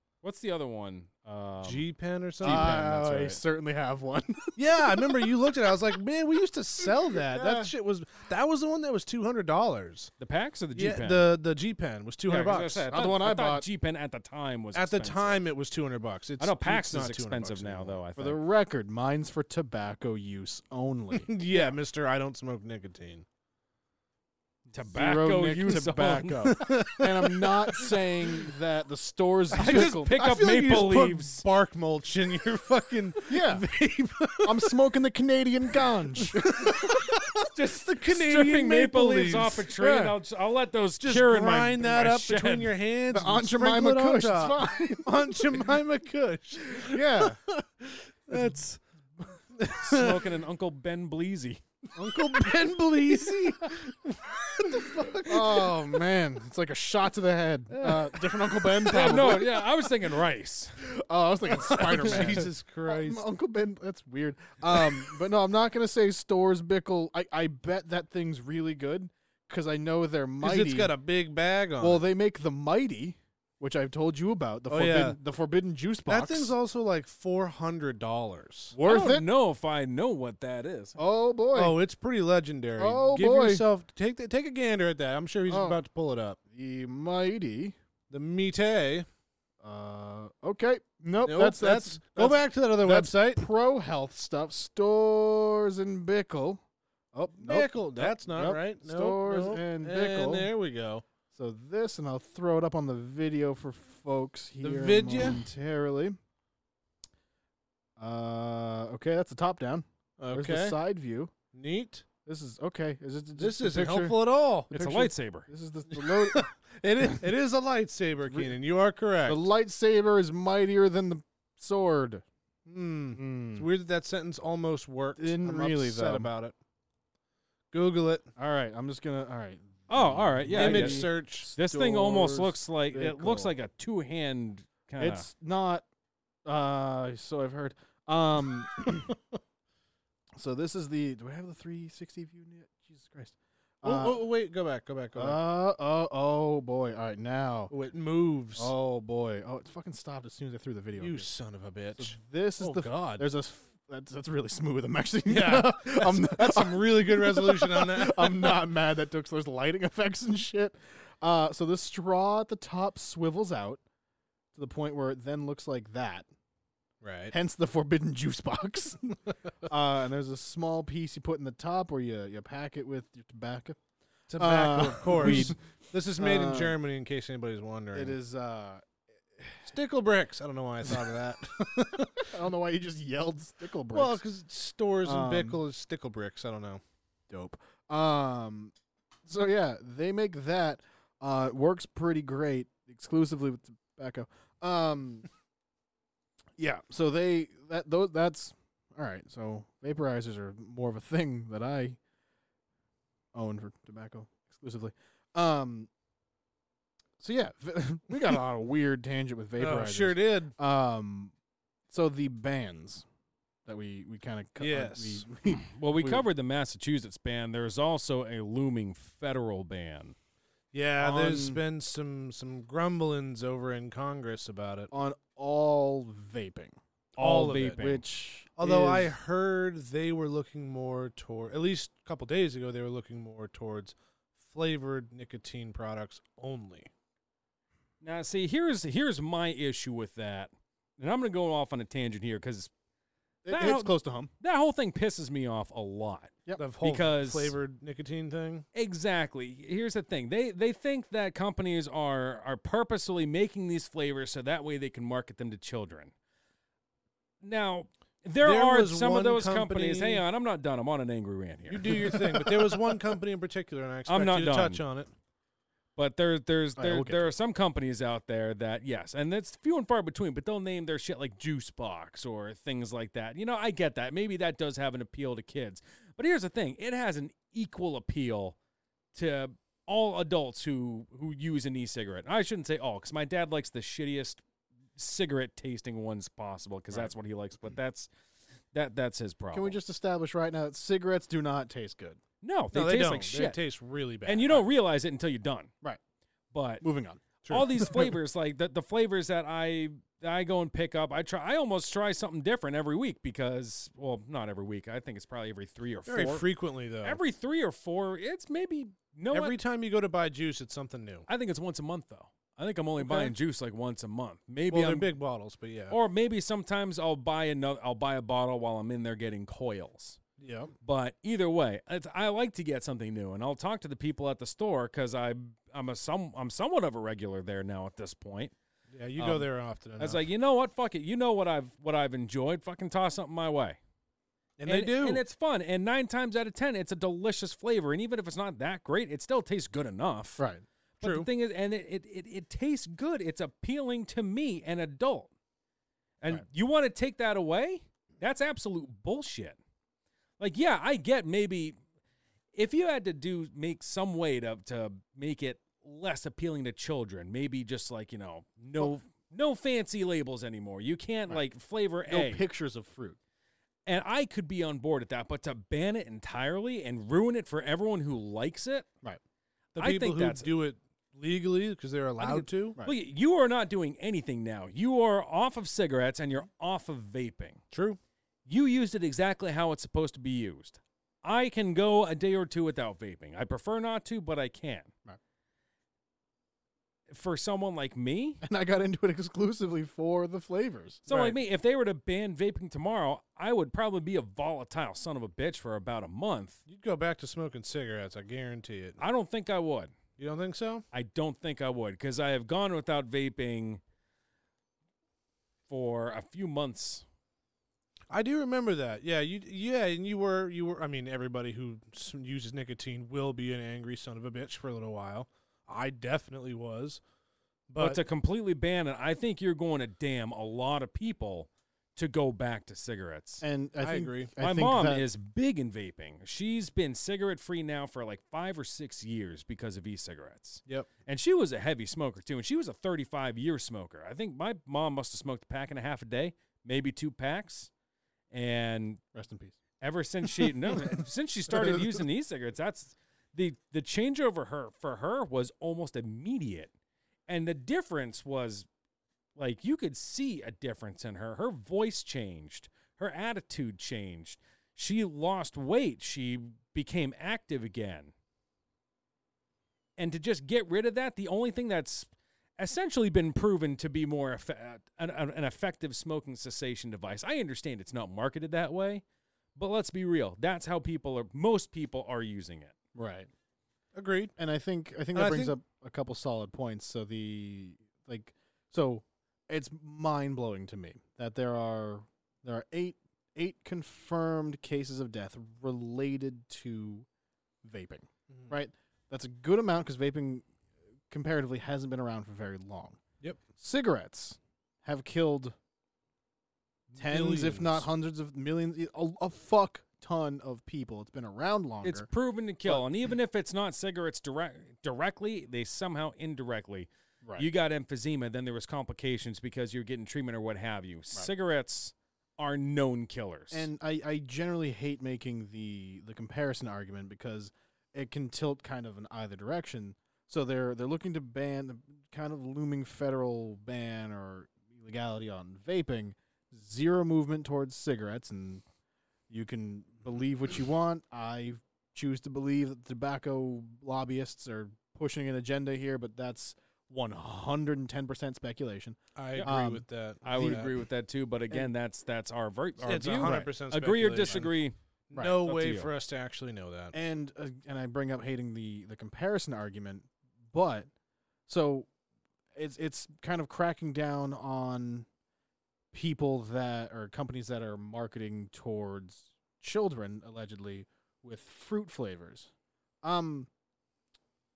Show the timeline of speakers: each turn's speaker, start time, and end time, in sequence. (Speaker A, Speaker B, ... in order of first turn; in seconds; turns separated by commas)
Speaker A: 0.2-1.9, Speaker B: 1.6-3.4, Speaker A: 2.4-2.8, Speaker C: 2.4-5.3, Speaker B: 4.6-10.1, Speaker C: 6.8-7.7, Speaker A: 10.2-11.3, Speaker B: 10.8-12.9, Speaker A: 12.3-15.4, Speaker C: 12.9-13.7, Speaker B: 14.7-18.0, Speaker A: 16.4-18.4, Speaker C: 18.2-21.4, Speaker B: 21.1-23.2, Speaker A: 24.7-26.6, Speaker C: 24.8-30.1, Speaker B: 26.5-28.5, Speaker B: 29.5-34.7, Speaker A: 29.6-31.4, Speaker C: 33.3-33.6, Speaker C: 34.4-37.0, Speaker B: 36.2-40.1, Speaker A: 37.5-42.7, Speaker B: 41.0-48.8, Speaker C: 43.1-45.7, Speaker C: 46.8-47.4, Speaker C: 48.3-48.6, Speaker B: 49.5-50.3, Speaker A: 49.8-51.6, Speaker B: 52.0-56.0, Speaker C: 54.6-59.7, Speaker B: 57.7-58.7, Speaker A: 58.8-60.8, Speaker C: 60.8-70.9, Speaker B: 61.5-63.3, Speaker B: 64.7-65.1, Speaker B: 70.4-72.0, Speaker C: 71.8-76.5, Speaker B: 74.7-75.2, Speaker B: 76.1-78.8, Speaker C: 78.7-79.3, Speaker A: 78.9-81.0, Speaker C: 81.0-81.8, Speaker B: 81.5-86.4, Speaker C: 82.8-83.7, Speaker C: 85.5-85.8, Speaker C: 86.5-87.8, Speaker B: 88.1-89.1, Speaker C: 89.6-96.6, Speaker B: 91.2-93.4, Speaker C: 97.1-100.5, Speaker B: 97.4-101.1, Speaker C: 101.3-106.2, Speaker B: 104.6-105.4, Speaker C: 108.0-111.3, Speaker B: 110.2-110.8, Speaker B: 111.5-112.0, Speaker C: 112.3-114.2, Speaker B: 113.4-114.7, Speaker A: 114.7-115.5, Speaker C: 114.7-117.3, Speaker B: 115.9-119.4, Speaker C: 118.3-118.6, Speaker C: 119.3-122.2, Speaker B: 122.7-126.6, Speaker C: 123.1-123.7, Speaker C: 125.2-126.3, Speaker B: 127.7-128.3, Speaker C: 128.4-133.5, Speaker A: 129.9-135.3, Speaker B: 130.5-131.5, Speaker C: 135.0-135.8, Speaker C: 136.4-139.2, Speaker C: 140.4-144.2, Speaker B: 143.8-145.4, Speaker C: 145.2-147.7, Speaker B: 147.7-148.7, Speaker C: 148.6-151.3, Speaker B: 151.0-153.2, Speaker C: 152.0-163.8, Speaker B: 155.3-158.6, Speaker C: 164.6-166.3, Speaker B: 167.0-167.3, Speaker C: 167.3-173.8, Speaker B: 174.3-178.2, Speaker C: 174.3-175.6, Speaker A: 175.2-175.6, Speaker C: 176.2-176.8, Speaker C: 177.9-179.7, Speaker B: 179.7-182.3, Speaker C: 180.8-181.2, Speaker C: 182.2-184.2, Speaker B: 183.9-186.8, Speaker C: 185.0-185.6, Speaker C: 187.3-188.7, Speaker C: 189.3-195.3, Speaker C: 196.6-202.0, Speaker C: 203.3-205.9, Speaker C: 207.2-211.3, Speaker B: 209.6-210.5, Speaker C: 211.9-213.1, Speaker C: 213.7-216.3, Speaker B: 214.6-215.3, Speaker A: 215.5-220.2, Speaker B: 220.7-224.9, Speaker C: 221.0-221.6, Speaker C: 224.9-226.8, Speaker A: 227.2-228.0, Speaker B: 227.2-227.8, Speaker C: 227.7-229.1, Speaker B: 228.6-236.9, Speaker A: 238.0-242.7, Speaker C: 243.4-244.3, Speaker A: 243.5-247.6, Speaker B: 246.6-248.7, Speaker A: 248.8-256.1, Speaker A: 257.4-262.1, Speaker B: 258.4-260.2, Speaker B: 261.7-265.1, Speaker A: 264.1-264.8, Speaker A: 266.0-278.6, Speaker C: 266.8-267.3, Speaker A: 279.1-284.4, Speaker A: 285.0-288.1, Speaker A: 288.7-289.8, Speaker C: 289.5-292.2, Speaker A: 292.4-293.6, Speaker B: 292.7-294.6, Speaker A: 294.2-295.7, Speaker A: 296.5-296.8, Speaker C: 296.8-297.2, Speaker B: 297.4-298.1, Speaker A: 297.5-306.5, Speaker B: 306.1-307.2, Speaker A: 307.0-309.6, Speaker B: 309.3-311.3, Speaker A: 311.3-315.1, Speaker B: 314.7-316.0, Speaker A: 315.9-320.2, Speaker B: 320.4-320.7, Speaker A: 320.8-328.5, Speaker B: 328.9-330.2, Speaker A: 329.2-329.5, Speaker A: 330.0-333.8, Speaker B: 334.6-335.2, Speaker A: 334.7-340.4, Speaker C: 340.4-340.6, Speaker A: 341.0-345.3, Speaker B: 341.0-341.3, Speaker A: 346.2-349.6, Speaker A: 350.4-351.8, Speaker A: 352.5-362.4, Speaker C: 362.1-363.2, Speaker A: 363.9-368.9, Speaker B: 369.8-372.8, Speaker A: 369.8-370.5, Speaker A: 372.2-377.6, Speaker B: 377.7-378.0, Speaker A: 378.5-384.9, Speaker A: 387.1-388.4, Speaker C: 388.4-391.1, Speaker A: 391.1-396.6, Speaker B: 391.1-391.4, Speaker B: 396.7-399.0, Speaker A: 399.0-399.9, Speaker B: 400.2-400.8, Speaker A: 400.9-403.8, Speaker A: 405.7-407.1, Speaker B: 408.1-417.0, Speaker B: 417.7-418.0, Speaker A: 417.8-423.4, Speaker C: 423.4-425.1, Speaker B: 423.8-424.3, Speaker A: 424.4-437.7, Speaker A: 438.3-439.0, Speaker C: 439.1-439.6, Speaker A: 439.8-446.7, Speaker C: 440.2-442.0, Speaker A: 447.3-448.7, Speaker A: 449.4-458.1, Speaker A: 460.0-469.0, Speaker A: 469.6-472.8, Speaker C: 472.9-473.3, Speaker B: 473.9-474.4, Speaker C: 474.4-487.1, Speaker B: 475.1-475.6, Speaker C: 487.6-490.5, Speaker C: 491.1-493.0, Speaker C: 493.6-495.6, Speaker B: 496.9-497.9, Speaker C: 497.0-502.1, Speaker A: 501.8-513.7, Speaker C: 513.5-528.6, Speaker C: 529.3-540.6, Speaker B: 539.2-540.7, Speaker A: 540.2-545.9, Speaker B: 542.8-544.5, Speaker C: 543.2-543.5, Speaker B: 545.1-547.0, Speaker C: 546.9-550.9, Speaker C: 551.5-551.9, Speaker C: 552.5-555.1, Speaker C: 555.9-562.5, Speaker C: 563.0-563.5